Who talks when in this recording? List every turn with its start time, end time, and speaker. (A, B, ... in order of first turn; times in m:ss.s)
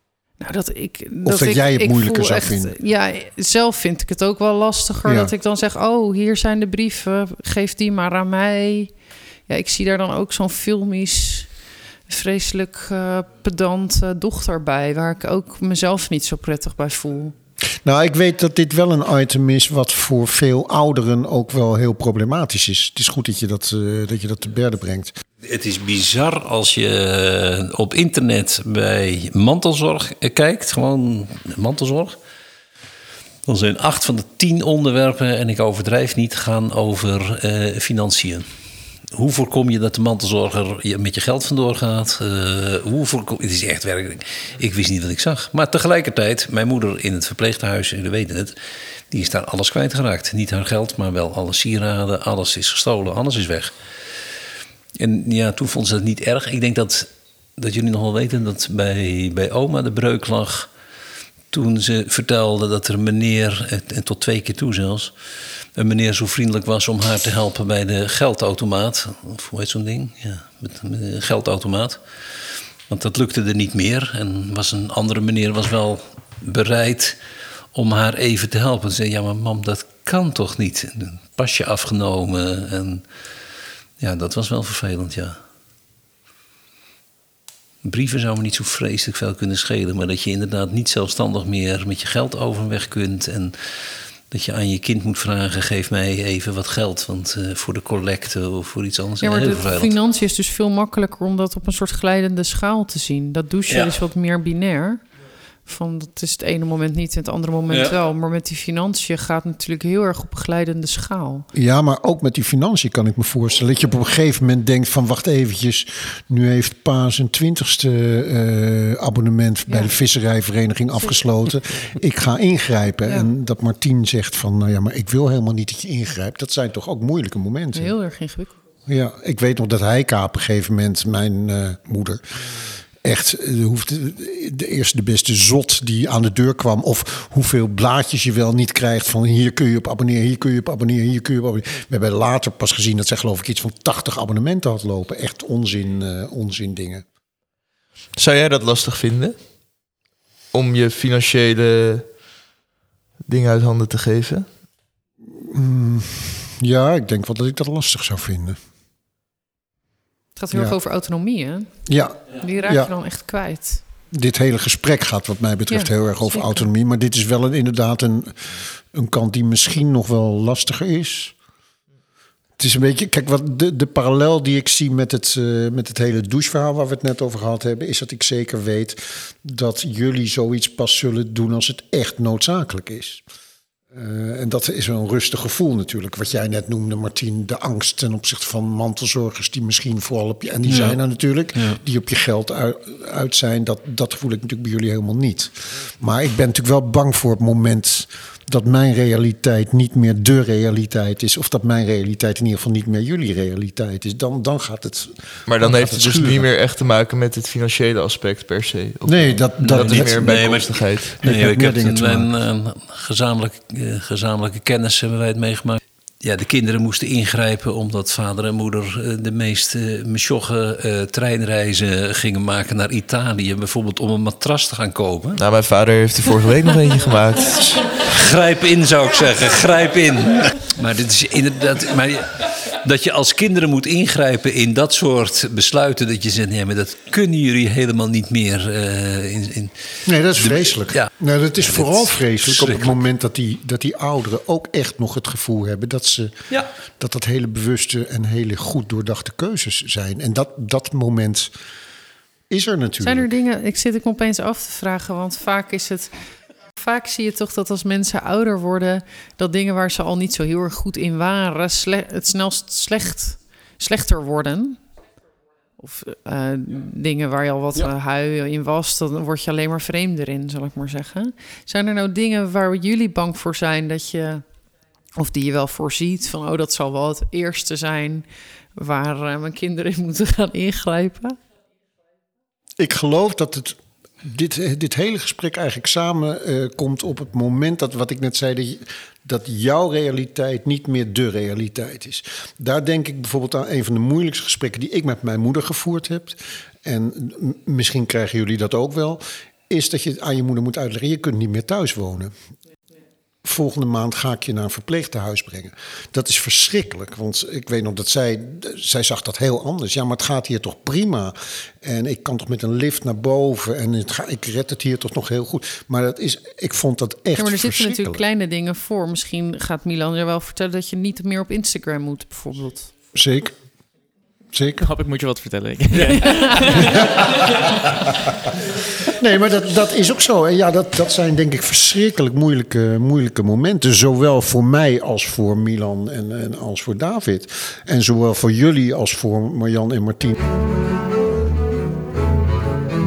0:00.4-0:17.3 A
0:01.2-0:02.8 B
0:05.0-0:05.3 B
0:17.8-0:25.2 B
0:25.4-0:32.2 C
0:33.4-0:38.5 C
0:39.1-0:48.6 C
0:49.1-0:53.7 C
0:55.0-1:00.7 C
1:01.5-1:05.1 C
1:05.8-1:17.2 C
1:17.7-1:23.0 C
1:24.0-1:25.4 C
1:27.8-1:33.6 C
1:34.3-1:39.9 C
1:39.2-1:45.0 A
1:43.7-1:44.0 C
1:45.6-1:51.4 A
1:51.5-2:07.9 B
2:07.7-2:08.6 A
2:08.8-2:12.4 B
2:13.0-2:27.0 B
2:28.2-2:29.4 D
2:30.5-2:32.1 D
2:33.2-2:34.5 D
2:35.3-2:38.6 B
2:40.4-2:43.8 A
2:41.8-2:42.9 B
2:44.1-2:51.3 B
2:45.7-2:46.7 A
2:52.6-3:03.2 B
3:03.9-3:26.5 B
3:10.7-3:11.0 C
3:25.5-3:31.1 D
3:29.0-3:30.5 B
3:29.6-3:45.4 C
3:31.2-3:32.3 B
3:45.4-3:47.8 D
3:48.0-4:02.9 C
4:00.0-4:06.3 B
4:07.0-4:11.5 B
4:12.5-4:13.3 B
4:13.0-4:24.8 A
4:25.8-4:34.4 A
4:35.2-4:41.4 A
4:42.8-5:02.3 B
5:03.4-5:18.2 B
5:17.4-5:22.9 A
5:23.1-5:23.6 B
5:24.5-5:24.9 B
5:24.8-5:27.1 E
5:26.1-5:26.8 A
5:26.9-5:27.2 B
5:29.2-5:40.4 B